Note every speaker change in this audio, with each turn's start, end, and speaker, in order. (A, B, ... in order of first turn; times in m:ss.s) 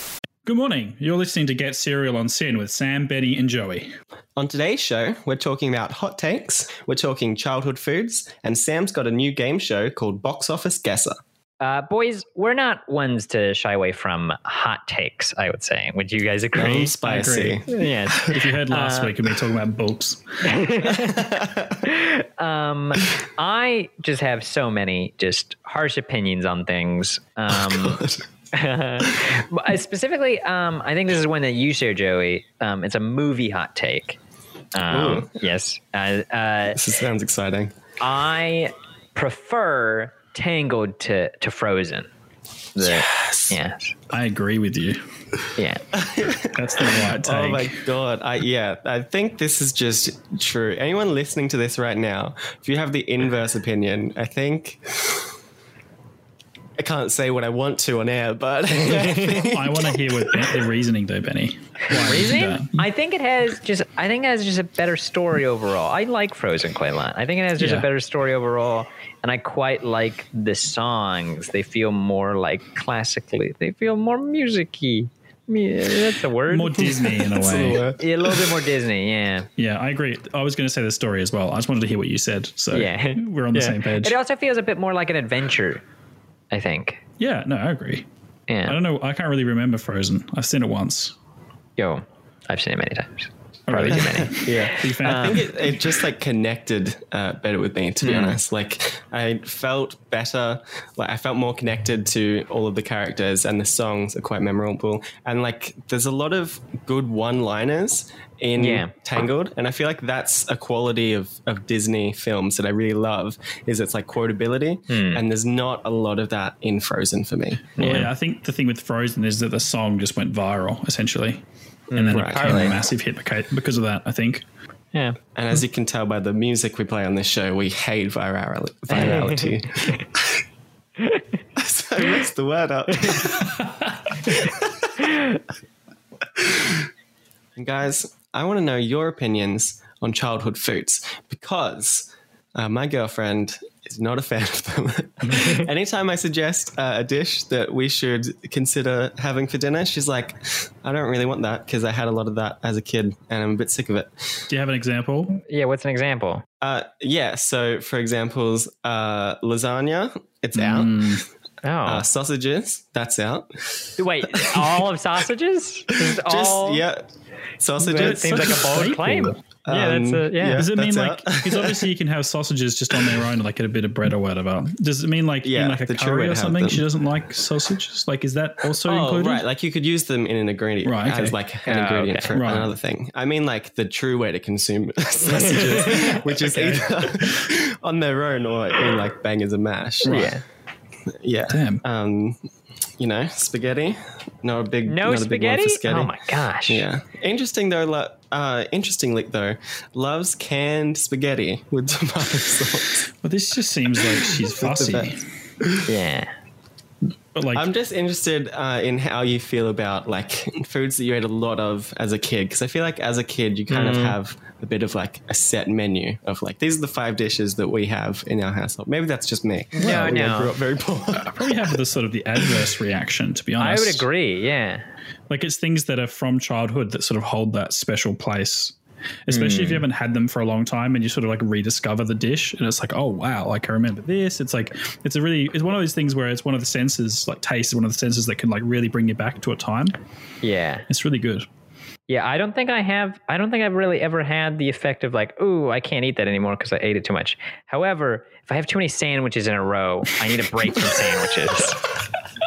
0:00.4-0:03.9 A
0:04.4-0:11.2 B
0:11.6-0:16.9 C
0:16.6-0:17.6 B
0:16.8-0:17.6 A
0:17.7-0:19.1 C
0:18.2-0:20.2 A
0:20.4-0:21.2 C
0:20.9-0:21.8 B
0:21.8-0:28.0 C
0:27.5-0:28.2 B
0:28.5-0:34.2 C
0:34.7-0:36.8 C
0:34.9-0:35.3 B
0:36.7-0:37.7 B
0:38.0-0:42.1 C
0:42.7-0:43.9 C
0:42.8-0:43.6 B
0:44.1-0:45.0 A
0:45.6-0:45.8 C
0:45.9-0:55.3 B
0:46.5-0:47.8 A
0:56.8-0:59.9 B
0:59.4-1:02.9 A
1:01.9-1:16.8 C
1:07.6-1:07.9 A
1:16.5-1:17.8 A
1:16.9-1:18.6 B
1:18.0-1:19.5 C
1:19.6-1:24.2 A
1:22.7-1:25.8 C
1:26.5-1:27.0 C
1:27.2-1:28.0 A
1:28.5-1:28.8 C
1:28.6-1:31.1 A
1:31.8-1:35.4 C
1:33.7-1:35.7 A
1:33.9-1:57.8 B
1:38.0-1:38.4 C
1:48.6-1:48.9 C
1:54.9-1:55.2 C
1:57.8-1:58.1 C
1:57.8-2:01.4 A
2:01.9-2:02.7 C
2:01.9-2:04.4 A
2:02.1-2:02.8 B
2:05.3-2:10.2 B
2:08.9-2:09.5 C
2:11.6-2:13.6 B
2:14.3-2:14.9 B
2:17.6-2:34.5 B
2:25.3-2:25.6 C
2:34.5-2:35.4 A
2:35.4-2:36.4 C
2:36.6-2:41.2 B
2:40.6-2:41.2 A
2:41.6-2:42.0 C
2:41.8-2:44.9 B
2:44.0-2:46.8 C
2:45.9-2:48.9 B
2:47.8-2:50.6 C
2:48.0-2:49.4 A
2:49.6-2:51.9 B
2:50.6-2:59.4 A
2:52.9-2:53.2 B
2:55.4-2:56.9 B
2:58.8-3:10.3 B
3:00.8-3:01.4 A
3:01.7-3:02.3 C
3:02.3-3:02.7 A
3:05.7-3:06.1 C
3:06.2-3:06.9 A
3:10.1-3:10.3 A
3:10.1-3:10.4 C
3:11.2-3:12.4 B
3:11.5-3:11.8 A
3:13.0-3:23.1 B
3:14.9-3:16.8 C
3:23.2-3:25.2 A
3:24.5-3:25.9 B
3:25.9-3:26.3 C
3:27.3-3:27.7 A
3:27.5-3:41.5 B
3:33.7-3:34.2 C
3:39.8-3:40.5 C
3:39.8-3:40.2 A
3:41.2-3:44.1 A
3:43.6-3:44.9 C
3:45.3-3:48.8 A
3:49.3-4:00.0 A
3:49.3-3:49.8 C
4:00.4-4:00.9 C
4:00.9-4:01.4 A
4:02.1-4:11.8 C